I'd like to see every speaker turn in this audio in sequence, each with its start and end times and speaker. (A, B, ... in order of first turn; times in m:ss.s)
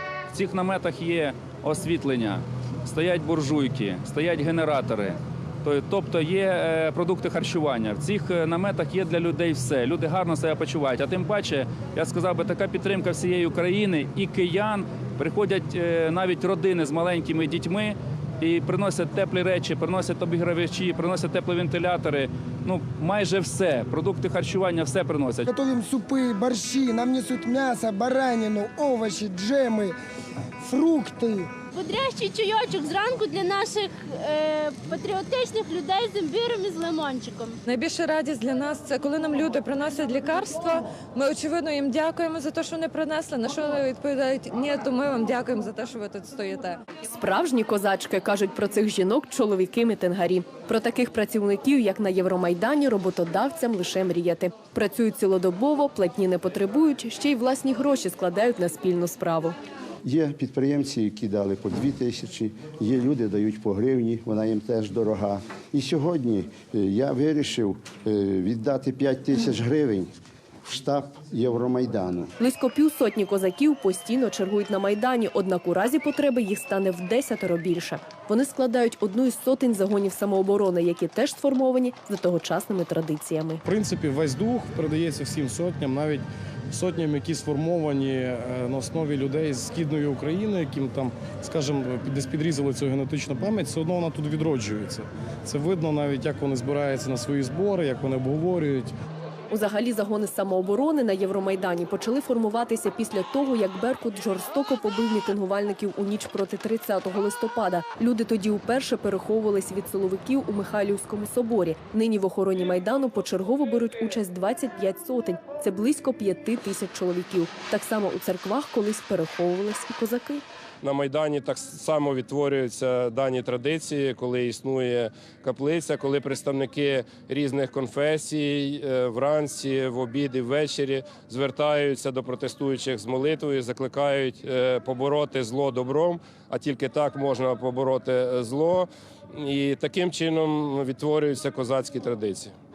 0:00.3-0:25.5 A
0:25.4-0:30.0 B
0:30.6-0:31.5 B
0:31.8-0:37.6 C
0:37.7-0:46.8 D
0:47.0-0:59.6 E
1:00.0-1:10.1 F
1:10.6-1:12.3 F
1:12.4-1:23.6 E
1:23.6-1:38.9 G
1:39.5-2:00.4 E
2:00.8-2:22.5 H